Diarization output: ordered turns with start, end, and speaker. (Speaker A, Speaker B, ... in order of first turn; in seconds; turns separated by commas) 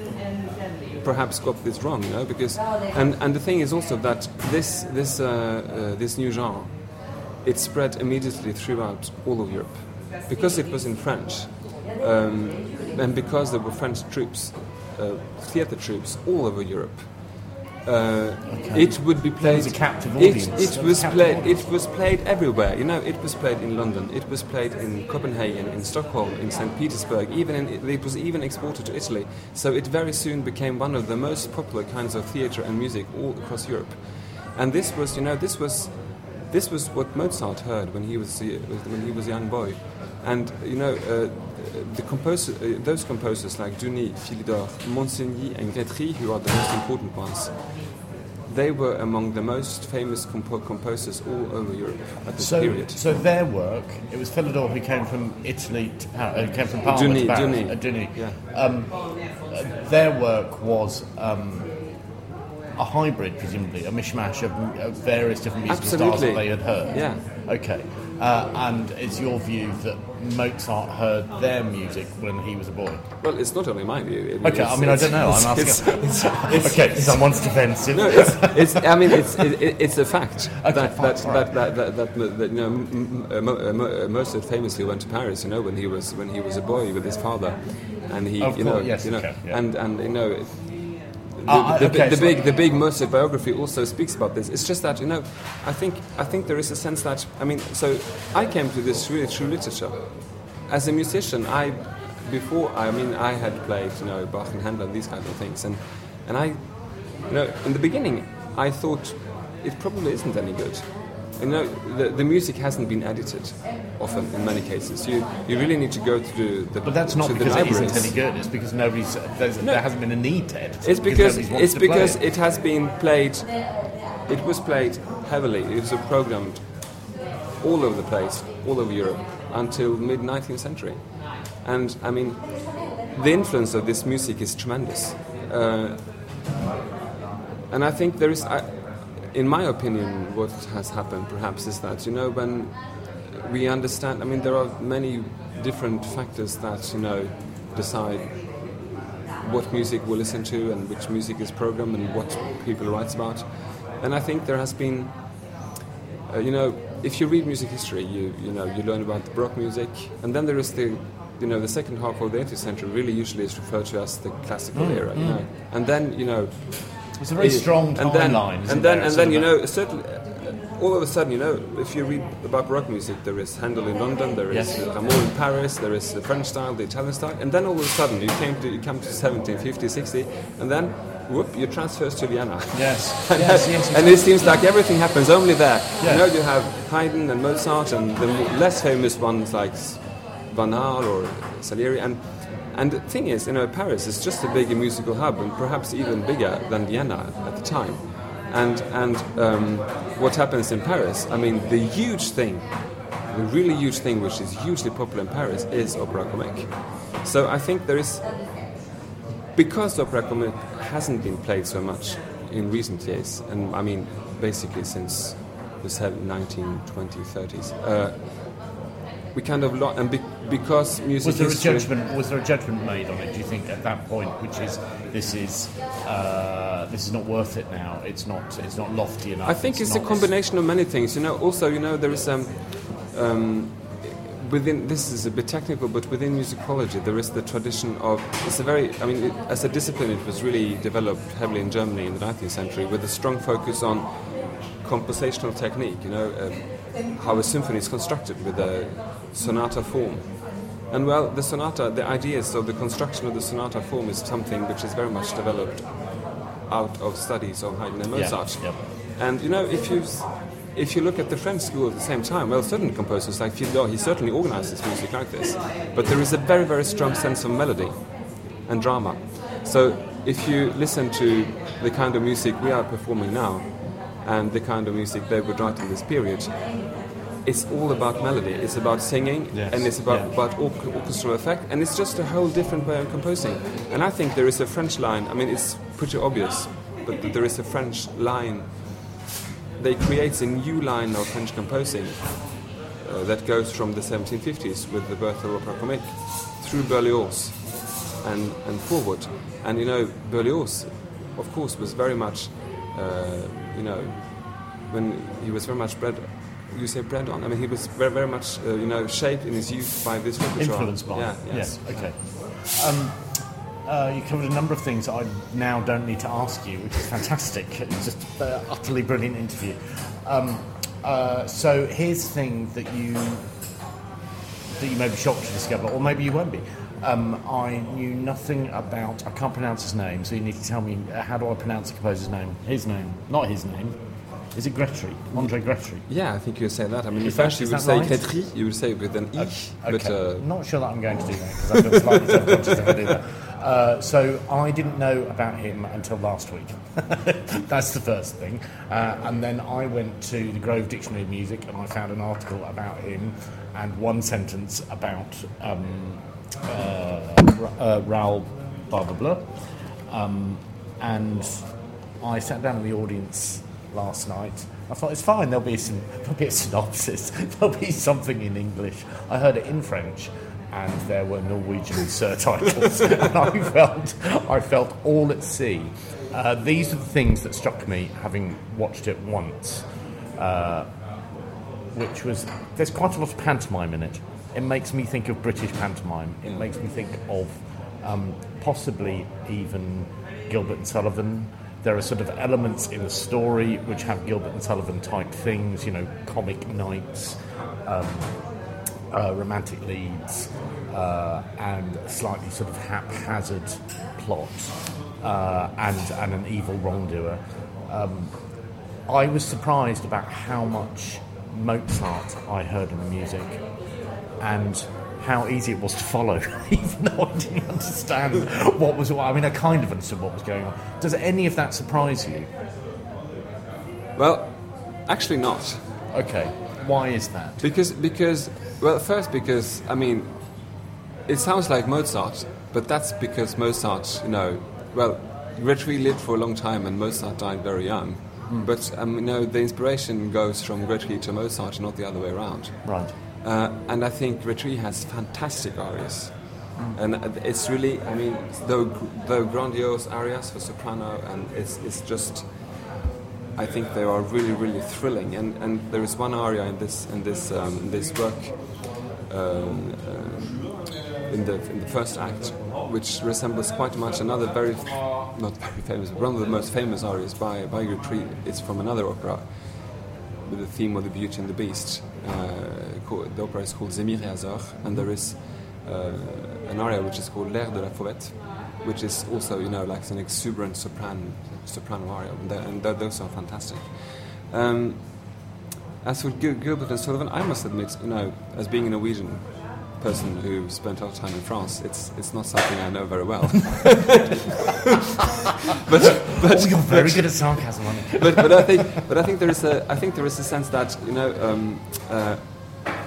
Speaker A: 1.0-53.0, Speaker B: 18.5-21.6, Speaker B: 52.4-62.0, Speaker A: 56.9-58.4, Speaker B: 62.8-73.0, Speaker A: 65.7-67.2, Speaker A: 73.2-77.4, Speaker B: 74.4-79.4, Speaker A: 77.9-118.2, Speaker B: 80.6-81.6, Speaker B: 88.4-89.6, Speaker B: 91.5-92.4, Speaker B: 116.8-122.2, Speaker A: 120.8-127.0, Speaker A: 127.6-136.3, Speaker A: 137.7-148.8, Speaker A: 149.4-155.5, Speaker A: 156.3-208.7, Speaker B: 164.7-165.5, Speaker B: 167.2-169.5, Speaker B: 182.7-184.7, Speaker B: 186.0-186.3, Speaker A: 209.6-218.8, Speaker A: 219.3-221.9, Speaker B: 221.2-230.3, Speaker A: 229.4-289.2, Speaker B: 258.1-258.8, Speaker B: 279.5-280.3, Speaker A: 289.8-312.2, Speaker B: 310.6-323.5, Speaker B: 324.7-334.0, Speaker B: 334.5-336.0, Speaker A: 336.1-340.5, Speaker B: 337.2-338.3, Speaker B: 339.4-380.9, Speaker A: 341.7-343.1, Speaker B: 381.9-398.4, Speaker B: 399.1-408.4, Speaker B: 409.1-413.8, Speaker B: 414.4-422.5, Speaker A: 424.2-425.8, Speaker B: 426.1-427.6, Speaker A: 427.6-452.9, Speaker B: 442.8-443.1, Speaker A: 453.5-485.5, Speaker B: 474.8-475.1, Speaker A: 486.0-495.0, Speaker A: 495.7-502.9, Speaker B: 496.4-498.8